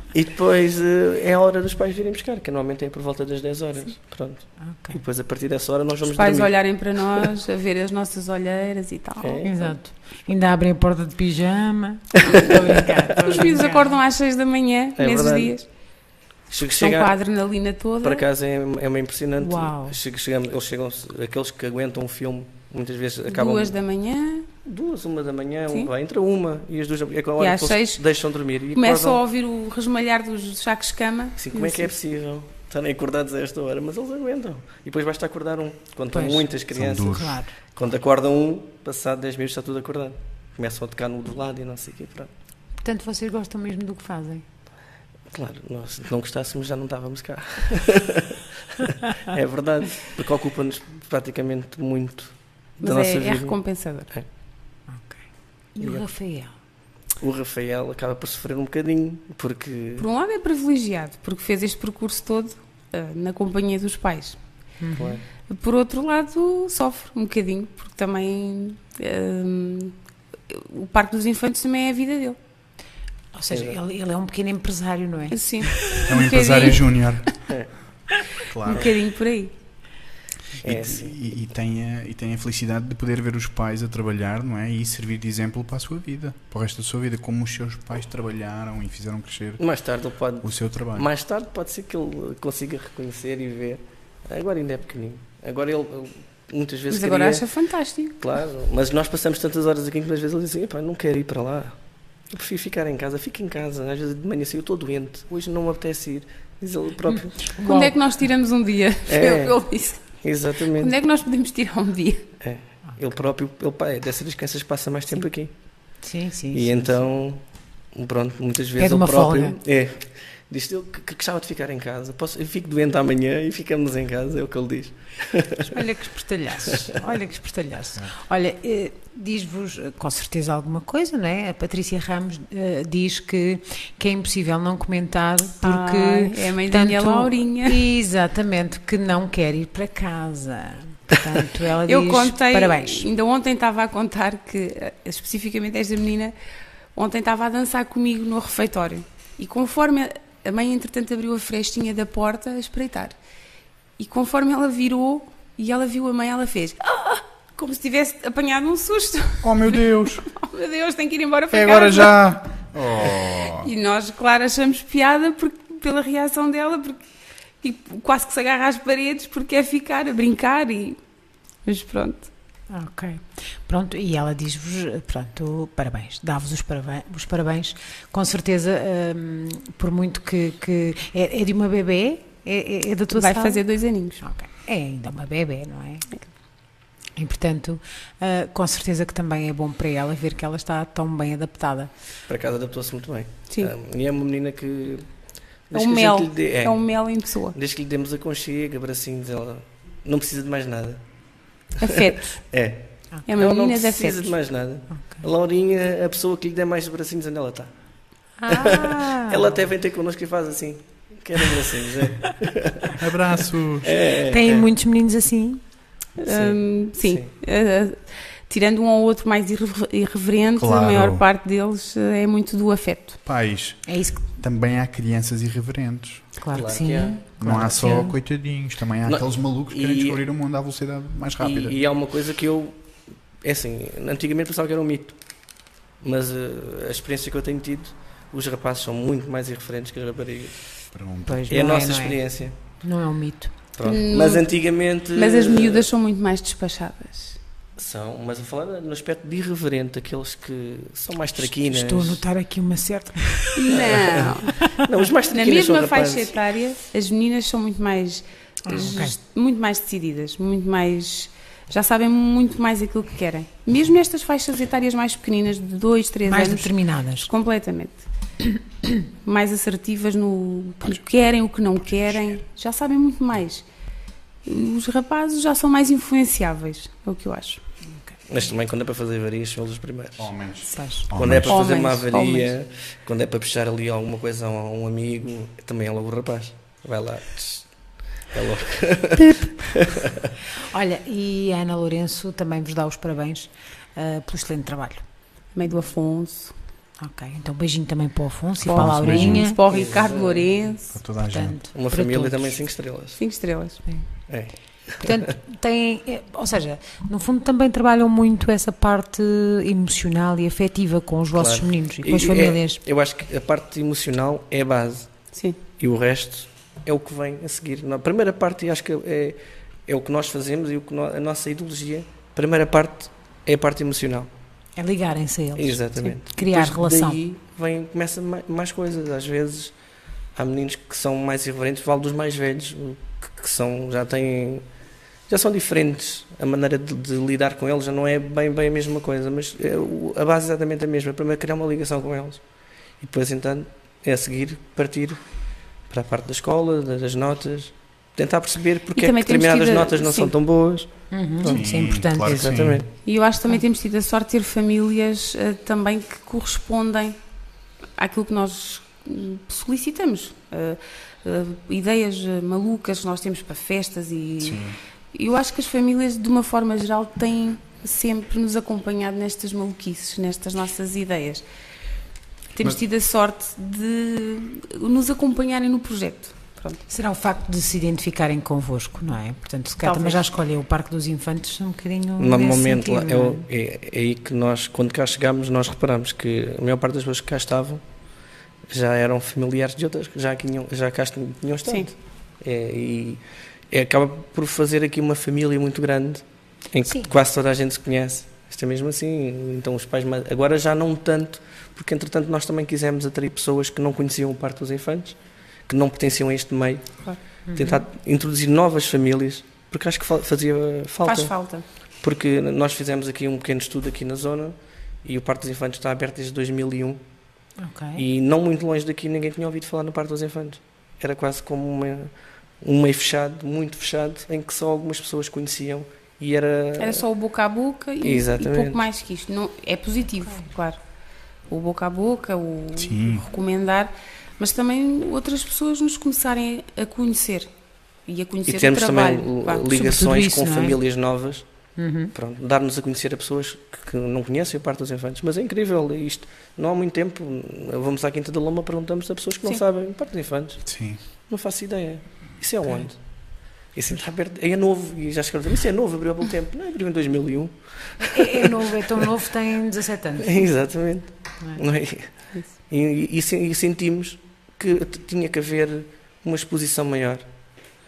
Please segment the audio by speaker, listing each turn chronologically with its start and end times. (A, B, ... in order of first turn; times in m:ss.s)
0:00.1-0:06.5 A
0:04.6-0:05.0 B
0:06.0-0:09.6 C
0:09.2-0:09.6 A
0:09.4-0:14.0 B
0:12.3-0:13.4 A
0:13.2-0:15.6 C
0:15.0-0:15.6 A
0:16.5-0:17.2 A
0:16.8-0:18.2 C
0:18.0-0:23.8 A
0:19.4-0:20.0 B
0:23.3-0:24.5 C
0:24.6-0:29.2 A
0:27.4-0:28.0 C
0:28.8-0:31.9 C
0:31.4-0:42.3 A
0:36.1-0:37.5 B
0:36.7-0:37.4 D
0:42.8-0:44.4 B
0:45.3-0:53.6 A
0:52.8-0:54.1 C
0:54.9-0:55.2 B
0:55.8-0:56.5 B
0:57.2-1:00.1 A
1:00.0-1:04.4 C
1:04.8-1:05.2 B
1:05.0-1:05.2 A
1:05.5-1:10.0 C
1:10.5-1:12.4 C
1:13.3-1:16.0 B
1:13.5-1:13.8 A
1:15.3-1:17.0 C
1:16.0-1:17.5 D
1:18.5-1:18.9 D
1:18.6-1:19.5 C
1:20.6-1:21.2 A
1:20.6-1:29.6 D
1:29.6-1:37.4 A
1:30.4-1:31.1 D
1:36.9-1:38.2 C
1:38.2-1:41.8 A
1:42.3-1:47.6 A
1:47.6-1:48.0 B
1:47.6-1:50.2 C
1:49.1-1:50.9 A
1:50.7-1:52.3 C
1:52.4-1:56.0 A
1:56.0-1:57.0 B
1:56.5-2:05.8 A
1:58.8-1:59.6 B
2:05.7-2:23.1 B
2:15.6-2:17.8 C
2:21.9-2:26.3 C
2:27.0-2:33.2 C
2:34.0-2:42.2 C
2:39.4-2:40.2 D
2:41.5-2:43.7 D
2:43.5-2:47.0 C
2:47.6-2:51.0 C
2:51.6-2:52.3 C
2:52.7-3:03.6 B
3:03.1-3:04.2 C
3:04.2-3:06.1 B
3:07.2-3:11.9 B
3:12.3-3:15.1 A
3:15.7-3:21.0 A
3:15.7-3:17.6 C
3:21.8-3:27.7 A
3:21.8-3:22.4 C
3:23.3-3:24.3 C
3:28.4-3:29.6 B
3:28.5-3:33.0 A
3:32.9-3:33.9 D
3:33.8-3:34.7 A
3:34.3-3:35.6 B
3:36.2-3:43.2 C
3:36.3-3:37.3 A
3:40.6-3:41.2 D
3:43.3-3:46.2 D
3:43.9-3:44.2 B
3:46.4-3:48.1 B
3:46.5-3:47.7 A
3:47.4-3:51.8 D
3:49.0-3:50.2 A
3:51.4-3:52.8 A
3:53.4-3:55.2 A
3:56.0-4:00.6 A
4:00.9-4:01.4 D
4:01.3-4:03.6 B
4:01.5-4:02.6 A
4:03.8-4:05.9 A
4:03.8-4:04.5 C
4:05.2-4:07.4 C
4:07.8-4:12.2 A
4:11.4-4:13.7 B
4:13.6-4:14.5 C
4:13.7-4:16.4 A
4:14.4-4:14.8 B
4:15.3-4:28.0 C
4:18.7-4:19.2 B
4:26.3-4:27.3 B
4:29.2-4:33.6 C
4:31.8-4:32.4 D
4:34.4-4:37.6 C
4:38.3-4:40.3 A
4:40.2-4:41.6 D
4:40.7-4:41.1 B
4:41.1-4:47.7 A
4:41.5-4:42.5 C
4:48.3-4:50.3 A
4:50.7-4:55.0 B
4:55.5-4:56.5 C
4:57.0-4:59.6 B
4:58.6-4:59.5 D
4:58.6-5:01.0 C
4:59.7-5:00.5 A
5:00.9-5:01.6 D
5:01.3-5:02.6 B
5:01.7-5:03.2 A
5:03.2-5:03.8 C
5:04.3-5:05.3 A
5:05.0-5:12.8 B
5:11.4-5:15.2 A
5:15.8-5:24.3 A
5:24.8-5:27.2 B
5:25.6-5:29.7 A
5:30.4-5:34.6 A
5:35.3-5:42.4 A
5:43.0-5:45.2 A
5:45.9-5:51.6 A
5:49.0-5:50.3 C
5:51.1-5:52.5 B
5:51.4-5:52.8 D
5:52.2-5:52.9 A
5:53.0-5:57.2 C
5:58.0-6:11.4 C
6:04.4-6:04.8 D
6:12.5-6:16.8 C
6:16.9-6:23.4 B
6:19.8-6:20.2 C
6:22.2-6:27.8 A
6:28.7-6:45.2 A
6:36.9-6:37.1 B
6:45.7-6:51.3 A
6:47.5-6:47.8 B
6:51.0-6:51.6 C
6:52.0-6:57.0 A
6:57.6-6:58.0 B
6:58.0-7:07.0 A
7:06.8-7:10.8 C
7:08.0-7:08.9 A
7:11.5-7:17.5 C
7:12.8-7:13.3 D
7:18.1-7:19.7 C
7:18.5-7:21.4 A
7:19.7-7:20.8 B
7:21.8-7:22.1 B
7:22.1-7:30.7 A
7:30.7-7:31.0 D
7:31.3-7:33.0 A
7:33.7-7:39.0 A
7:38.0-7:40.5 B
7:40.2-7:47.2 A